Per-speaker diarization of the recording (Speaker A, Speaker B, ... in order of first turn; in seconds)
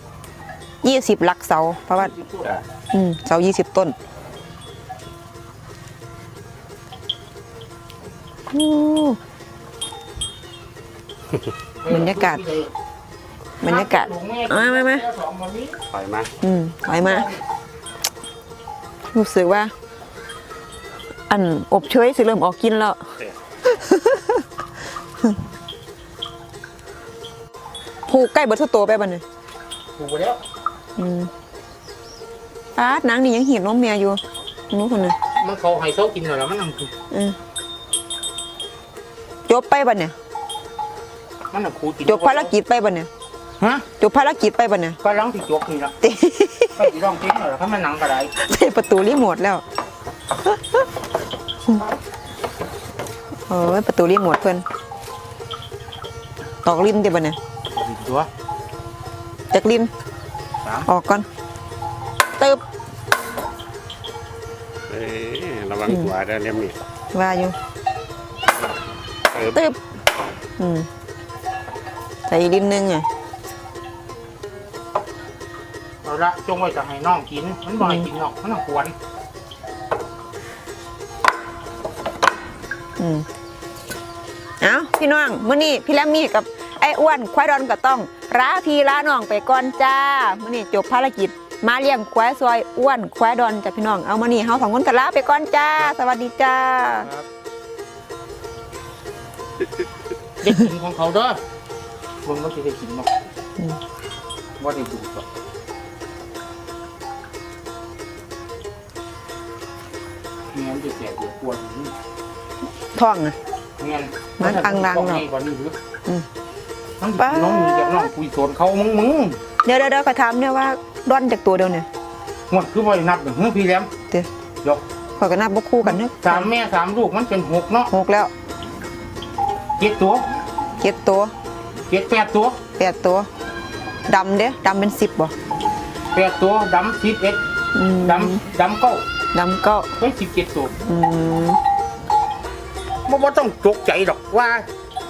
Speaker A: 0.8-2.1, 2.9-4.0, 8.5-9.2, 11.9-12.4, 13.6-15.1, 16.4-17.3, 19.1-19.7, 21.3-23.1, 23.6-24.5, 28.1-29.2, 31.0-31.3, 32.8-34.2, 34.7-35.2, 37.1-37.4, 39.5-40.1, 42.1-43.1, 44.0-45.0, 46.0-46.9, 48.4-49.6, 53.5-54.6, 56.6-57.4, 59.5-59.9, 60.9-61.3, 67.1-67.5, 69.4-69.8, 70.6-70.9, 72.3-73.1, 83.0-83.3, 84.6-97.1, 113.0-113.3, 114.4-115.2, 117.2-118.1, 119.7-121.9, 125.2-126.5, 127.9-128.3, 130.8-131.3, 132.8-133.3, 134.1-135.3, 137.8-138.4, 139.3-139.9, 140.9-141.6
Speaker B: 1.9-2.5, 11.8-12.7, 13.6-15.8, 30.0-30.4, 35.4-36.9, 41.5-42.5, 43.6-43.9, 45.0-46.0, 46.8-48.3, 57.7-58.3, 76.0-79.0, 100.4-101.4, 102.2-103.1, 104.6-105.3, 110.5-111.9, 113.8-115.8, 117.0-119.4, 122.5-123.9, 125.8-127.9, 129.8-130.2, 131.9-132.6, 136.1-137.4, 138.0-139.1, 140.0-140.8, 143.1-144.7
Speaker C: 15.9-16.3, 64.9-66.8